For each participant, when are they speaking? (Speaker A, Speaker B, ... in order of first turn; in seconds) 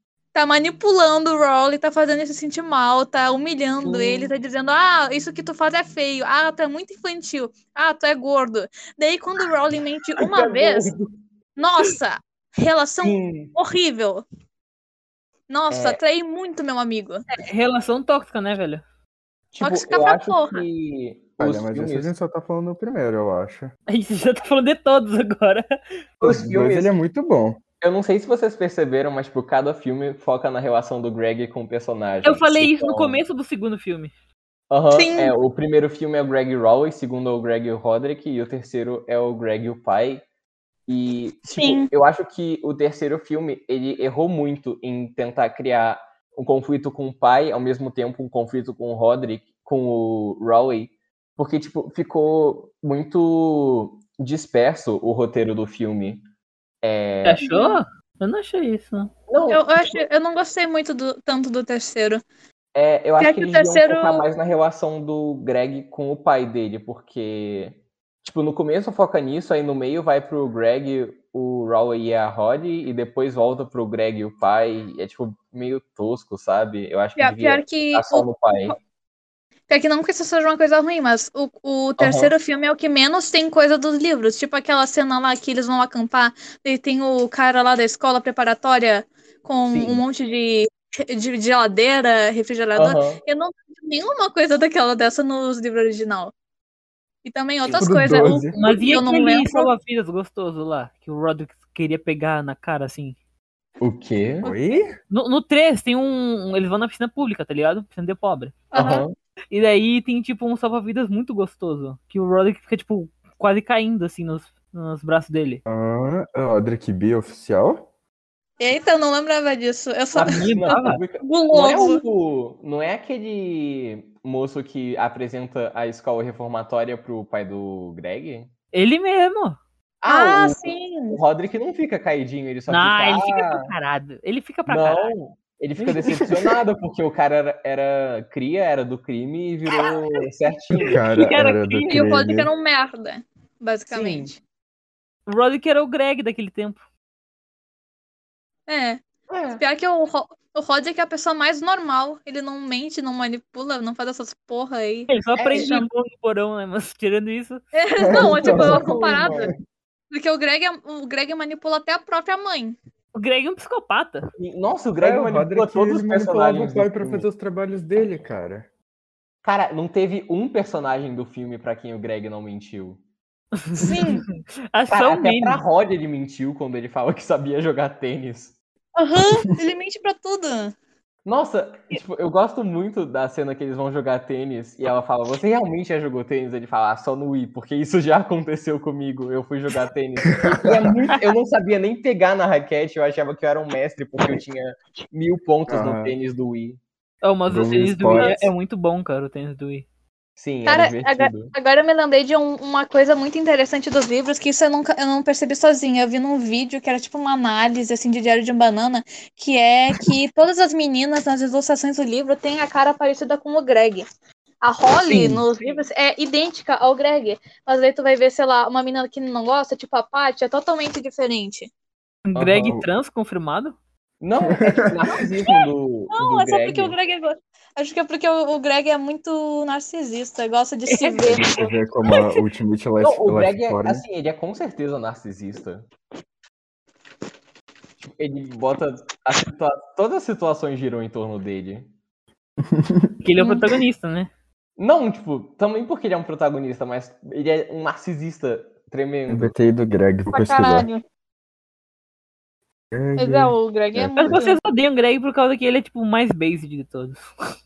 Speaker A: 0.3-10.9, 11.6-14.2, 15.5-17.2, 19.6-20.6, 35.0-35.3, 41.5-41.9, 57.4-57.8, 59.5-62.2, 63.2-64.3, 77.2-78.8, 79.7-96.3, 97.2-99.7, 108.7-109.0, 118.6-122.0, 130.1-131.2, 141.9-144.4, 148.7-149.0, 149.6-155.9, 157.7-159.5, 160.1-162.8, 173.8-174.2, 179.0-180.7, 198.2-198.5, 200.7-214.1, 214.6-221.7, 226.1-231.7, 243.4-243.7, 250.3-251.0, 253.2-254.6
Speaker B: 3.8-4.3, 10.2-11.1, 13.0-13.5, 15.7-16.0, 19.5-22.1, 26.2-26.9, 27.8-33.2, 34.7-40.2, 40.9-56.2, 56.8-57.4, 59.3-60.0, 62.7-78.8, 82.0-82.3, 89.7-90.0, 92.8-93.2, 103.8-104.5, 108.7-109.2, 120.1-128.5, 130.0-133.7, 134.7-141.0, 143.9-144.3, 149.3-149.6, 155.4-155.8, 158.1-159.5, 164.4-167.2, 169.4-173.0, 174.9-178.6, 181.2-196.8, 200.4-201.5, 222.3-222.8, 224.2-227.0, 233.0-235.9, 238.0-241.9, 244.8-249.6
Speaker C: 17.3-18.8, 23.9-25.7, 32.2-34.1, 57.2-59.1, 98.5-103.2, 105.1-108.7, 109.5-115.6, 120.4-121.0, 128.7-129.6, 132.7-135.1, 140.9-142.0, 145.3-146.8, 155.1-157.6, 163.2-164.3, 173.6-175.6, 197.2-199.8, 222.3-223.8, 230.9-231.3, 243.2-244.3, 254.2-257.2
Speaker D: 21.4-23.7, 26.2-27.6, 97.8-98.5, 104.4-104.9, 115.7-117.8, 140.7-142.5, 158.0-159.5, 165.0-168.7, 190.4-190.9, 195.7-196.2, 197.5-198.4, 224.6-225.2, 231.2-234.0, 242.6-243.1, 249.3-250.9, 252.9-254.4